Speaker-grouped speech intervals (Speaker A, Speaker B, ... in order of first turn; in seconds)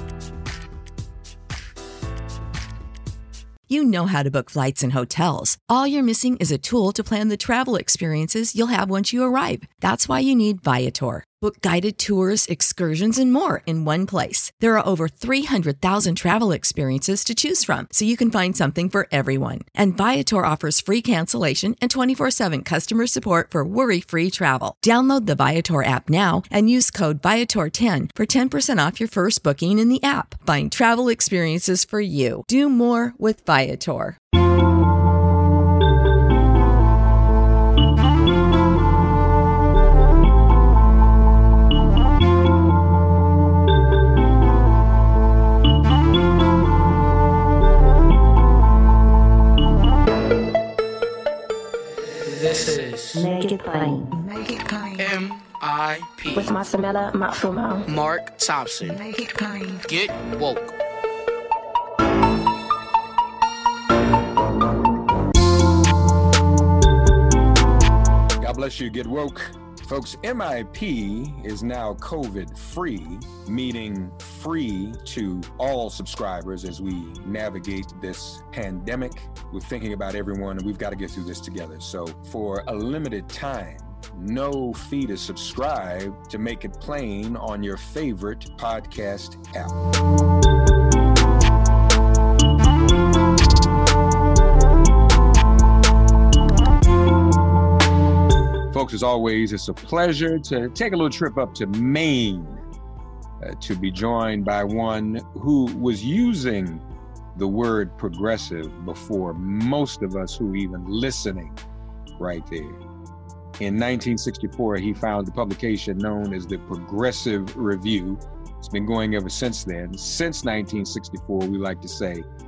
Speaker A: 3.7-34.2
Speaker B: 52.3-53.3, 55.0-56.5, 57.9-59.0, 59.9-60.7
Speaker C: 53.1-54.1, 56.3-57.9
Speaker D: 54.1-55.1, 58.8-59.9
Speaker E: 68.4-89.7, 98.7-102.6, 103.4-106.8, 107.3-111.6, 112.2-112.8, 113.6-122.2